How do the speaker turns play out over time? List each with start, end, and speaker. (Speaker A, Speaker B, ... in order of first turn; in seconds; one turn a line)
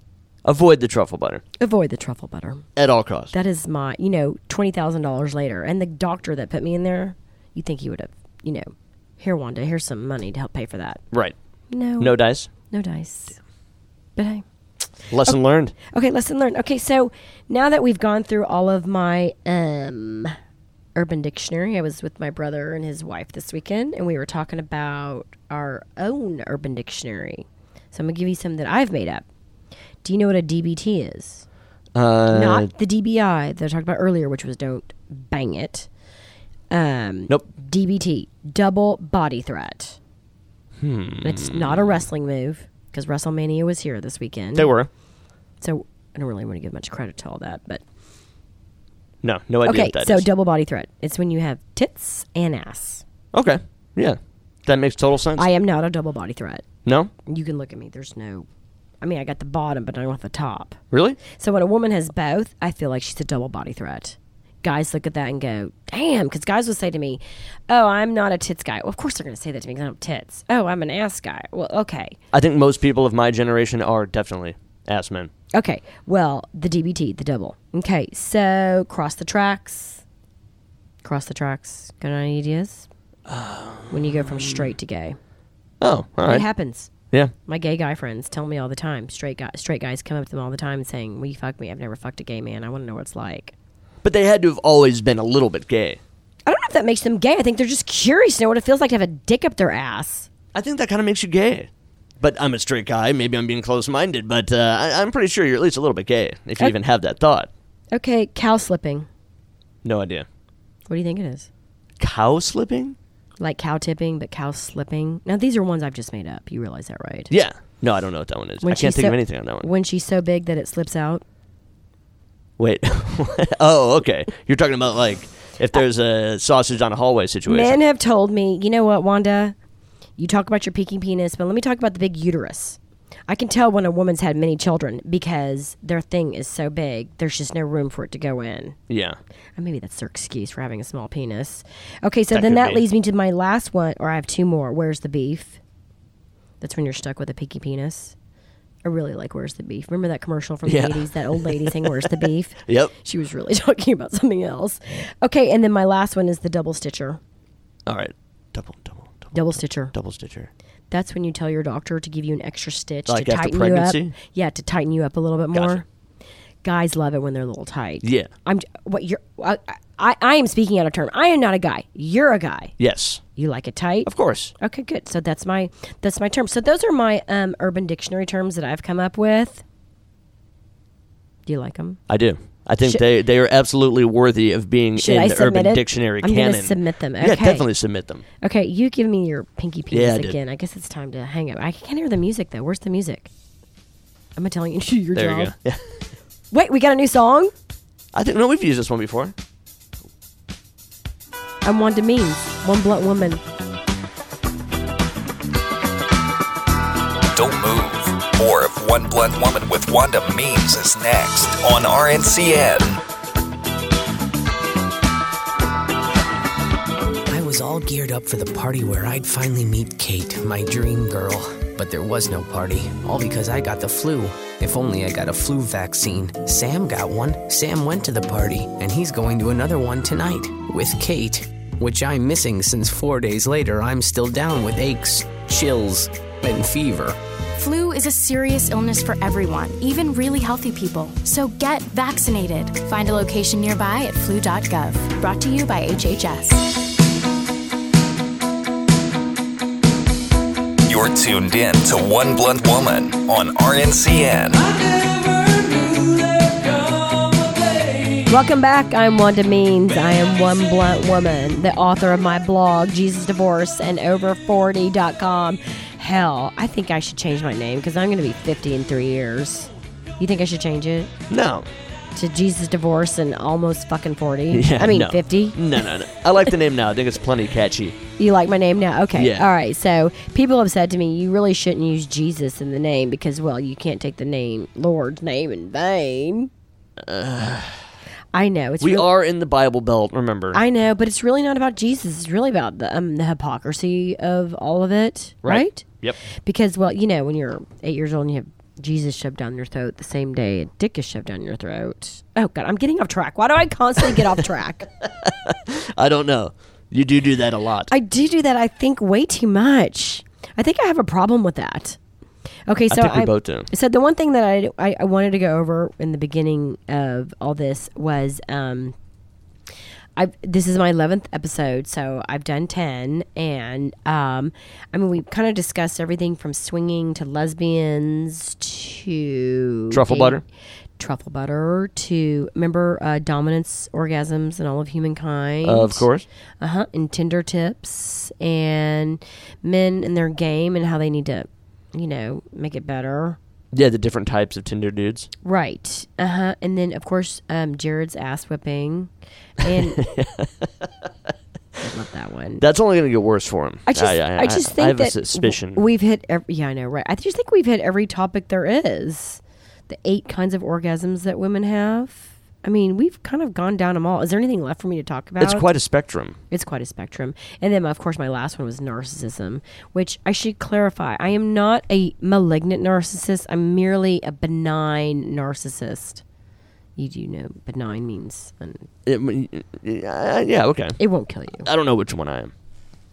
Speaker A: 0.4-1.4
Speaker B: 1.6-2.6
Speaker A: 2.8-3.3
Speaker B: 3.3-11.0
Speaker B: 11.7-13.4
Speaker A: 12.0-12.5
Speaker B: 14.2-14.4
Speaker A: 15.1-15.7
Speaker B: 15.9-20.3
Speaker B: 20.9-29.2
Speaker B: 30.0-31.4
Speaker A: 31.9-32.7
Speaker B: 32.3-35.9
Speaker B: 36.7-40.0
Speaker A: 40.8-42.0
Speaker B: 41.2-44.7
Speaker A: 44.5-44.9
Speaker B: 45.6-47.8
Speaker A: 49.2-50.2
Speaker B: 49.6-53.0
Speaker A: 53.3-55.5
Speaker B: 55.4-56.6
Speaker A: 56.8-57.1
Speaker B: 57.2-58.5
Speaker B: 59.0-72.2
Speaker A: 60.9-61.2
Speaker A: 72.3-75.3
Speaker B: 75.5-80.0
Speaker B: 81.0-82.9
Speaker A: 83.3-84.6
Speaker B: 83.9-85.2
Speaker A: 85.8-86.4
Speaker B: 86.2-86.9
Speaker B: 87.5-93.5
Speaker A: 94.0-96.0
Speaker B: 96.5-100.3
Speaker A: 100.5-101.7
Speaker A: 102.2-107.5
Speaker B: 107.9-109.1
Speaker A: 109.8-110.2
Speaker B: 110.9-111.5
Speaker A: 112.0-113.0
Speaker B: 113.4-117.3
Speaker A: 117.3-119.7
Speaker B: 118.6-121.2
Speaker A: 122.6-127.8
Speaker B: 127.5-129.5
Speaker B: 130.2-138.8
Speaker A: 138.9-139.2
Speaker B: 139.6-145.6
Speaker A: 142.3-142.8
Speaker B: 146.6-148.1
Speaker B: 148.8-157.2
Speaker A: 150.7-152.1
Speaker A: 152.7-152.9
Speaker A: 157.9-160.5
Speaker B: 159.3-159.9
Speaker B: 160.9-165.8
Speaker A: 163.1-164.1
Speaker B: 166.6-172.7
Speaker A: 168.0-168.3
Speaker A: 172.8-173.2
Speaker B: 173.3-179.6
Speaker A: 174.1-174.5
Speaker B: 181.4-182.0
Speaker A: 182.1-188.2
Speaker B: 184.9-187.6
Speaker B: 188.4-193.3
Speaker A: 189.9-190.3
Speaker B: 194.4-195.5
Speaker A: 195.1-195.8
Speaker B: 196.5-197.5
Speaker A: 198.1-199.3
Speaker B: 201.6-203.4
Speaker C: 207.3-213.0
Speaker D: 217.2-237.2
Speaker E: 237.5-246.7
Speaker C: 250.8-254.7
Speaker A: 255.1-257.9
Speaker B: 258.3-271.1
Speaker A: 271.3-271.7
Speaker B: 272.1-275.6
Speaker A: 274.5-278.0
Speaker B: 278.2-286.5
Speaker A: 279.1-279.4
Speaker A: 287.0-287.9
Speaker B: 288.3-289.1
Speaker A: 288.8-290.6
Speaker B: 290.5-304.9
Speaker A: 295.4-296.2
Speaker A: 305.2-307.9
Speaker B: 307.9-312.0
Speaker B: 312.7-318.9
Speaker A: 312.9-313.7
Speaker B: 320.1-330.4
Speaker A: 329.9-330.4
Speaker B: 331.0-336.0
Speaker A: 335.6-336.2
Speaker B: 336.6-343.4
Speaker A: 343.7-345.3
Speaker B: 345.4-350.0
Speaker A: 349.6-350.9
Speaker B: 351.8-352.6
Speaker A: 352.6-355.8
Speaker B: 353.9-365.7
Speaker A: 365.4-366.4
Speaker B: 366.5-376.2
Speaker B: 377.0-378.9
Speaker A: 379.1-381.0
Speaker B: 381.0-381.7
Speaker A: 381.6-382.5